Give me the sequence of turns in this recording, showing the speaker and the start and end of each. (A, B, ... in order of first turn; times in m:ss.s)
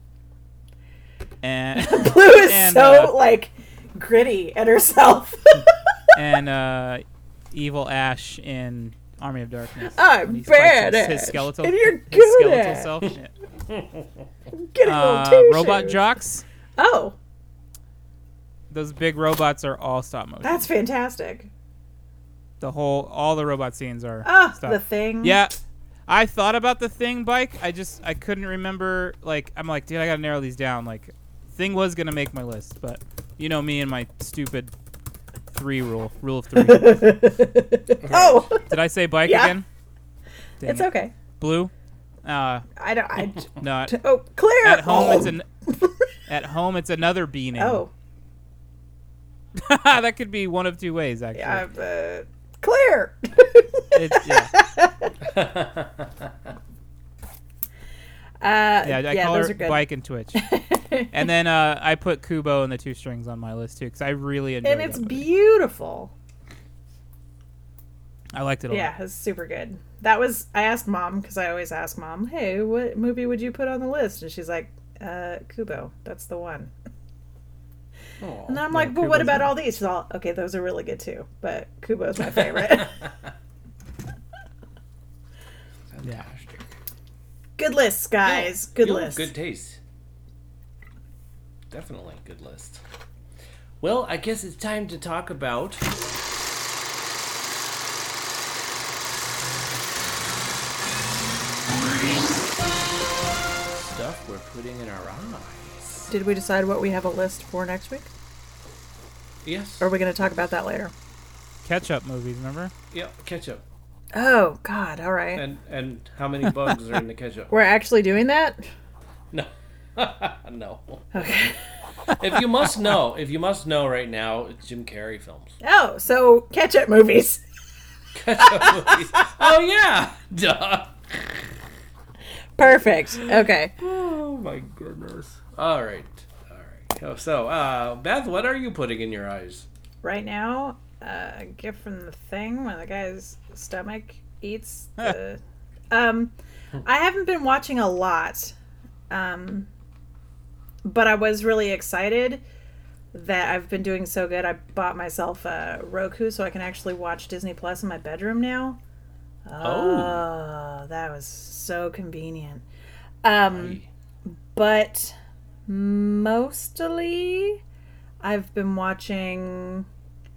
0:01.4-0:03.2 A
0:01.7-0:05.7 B
0:06.1-0:13.3 A
0:10.0-0:13.0 B
0:13.7-0:14.0 C
0:14.5-0:16.0 B
0:14.8-0:16.4 A
0:16.8-0:17.2 B
0:18.7-0:20.7 A
0:20.4-0:21.5 B
0:22.6-0:25.5 A
0:24.2-0:25.4 B
0:26.1-0:34.7 A
0:35.5-0:37.1 A
0:36.6-0:38.7 B
0:38.0-0:38.5 C
0:38.6-0:39.6 A
0:39.2-0:39.6 B
0:40.6-0:41.1 B
0:40.6-0:41.7 A
0:42.2-0:42.6 A
0:42.8-0:45.8 B
0:43.6-0:44.0 A
0:44.6-0:45.5 A
0:46.3-0:47.8 A
0:47.6-0:47.9 B
0:49.6-0:51.6 A
0:51.3-0:55.1 B
0:53.9-0:54.6 A
0:55.3-0:56.3 C
0:58.4-1:01.2 B
0:58.8-1:00.5 A
1:01.1-1:05.3 A
1:04.6-1:06.1 B
1:08.3-1:08.9 A
1:08.7-1:16.7 B
1:18.2-1:18.6 C
1:18.5-1:23.0 B
1:18.7-1:19.6 A
1:22.5-1:23.1 C
1:25.9-1:26.7 C
1:27.6-1:29.3 B
1:28.2-1:29.8 C
1:31.7-1:32.8 C
1:33.8-1:35.9 C
1:43.7-1:46.1 C
1:46.1-1:48.1 B
1:49.4-1:49.9 C
1:49.8-1:50.9 B
1:51.6-1:52.7 A
1:52.9-1:53.6 C
1:54.1-1:55.4 B
1:55.3-1:57.5 C
1:57.5-1:58.6 B
1:59.3-2:01.5 C
2:01.1-2:01.6 B
2:02.1-2:05.5 C
2:05.6-2:07.4 B
2:08.1-2:11.4 C
2:08.4-2:09.2 B
2:12.6-2:13.7 B
2:13.2-2:19.6 C
2:20.0-2:25.4 B
2:25.9-2:28.5 B
2:29.1-2:29.7 B
2:30.8-2:32.4 B
2:33.1-2:38.8 B
2:39.4-2:42.6 B
2:39.6-2:40.2 C
2:43.2-2:45.1 B
2:43.5-2:43.9 C
2:45.7-2:47.6 B
2:48.2-2:49.9 B